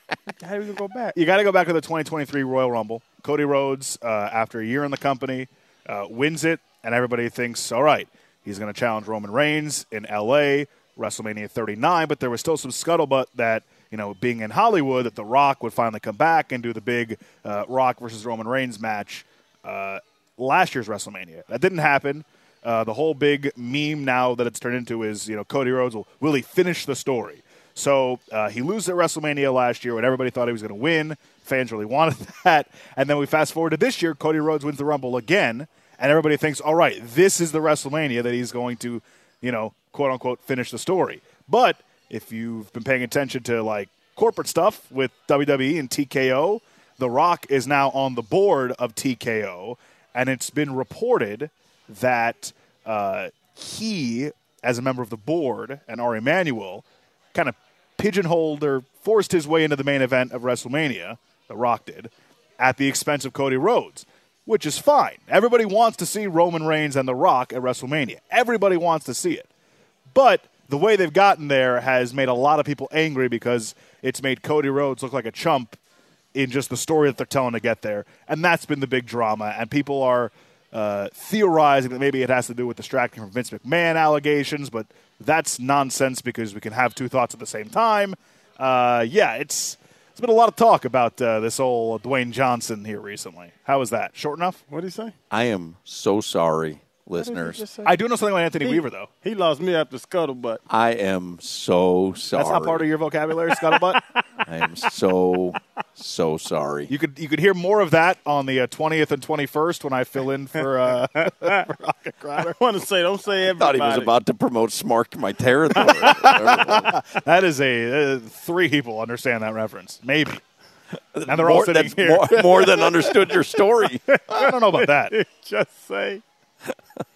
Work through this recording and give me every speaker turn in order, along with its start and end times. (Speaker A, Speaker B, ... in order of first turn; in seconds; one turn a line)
Speaker A: 0.3-1.2
Speaker B: 1.1-69.5
Speaker B: 70.1-75.8
Speaker B: 76.3-94.6
Speaker A: 94.7-95.2
Speaker C: 95.3-97.6
Speaker A: 97.2-98.0
Speaker B: 97.8-99.1
Speaker A: 98.6-100.6
Speaker C: 100.7-102.9
Speaker B: 102.3-104.0
Speaker A: 103.5-103.8
Speaker C: 104.4-106.9
Speaker B: 106.9-112.6
Speaker A: 112.4-114.2
Speaker C: 113.5-116.9
Speaker B: 115.8-120.4
Speaker C: 121.1-124.0
Speaker B: 121.3-122.7
Speaker A: 122.8-123.2
Speaker A: 123.8-126.2
Speaker B: 124.3-125.1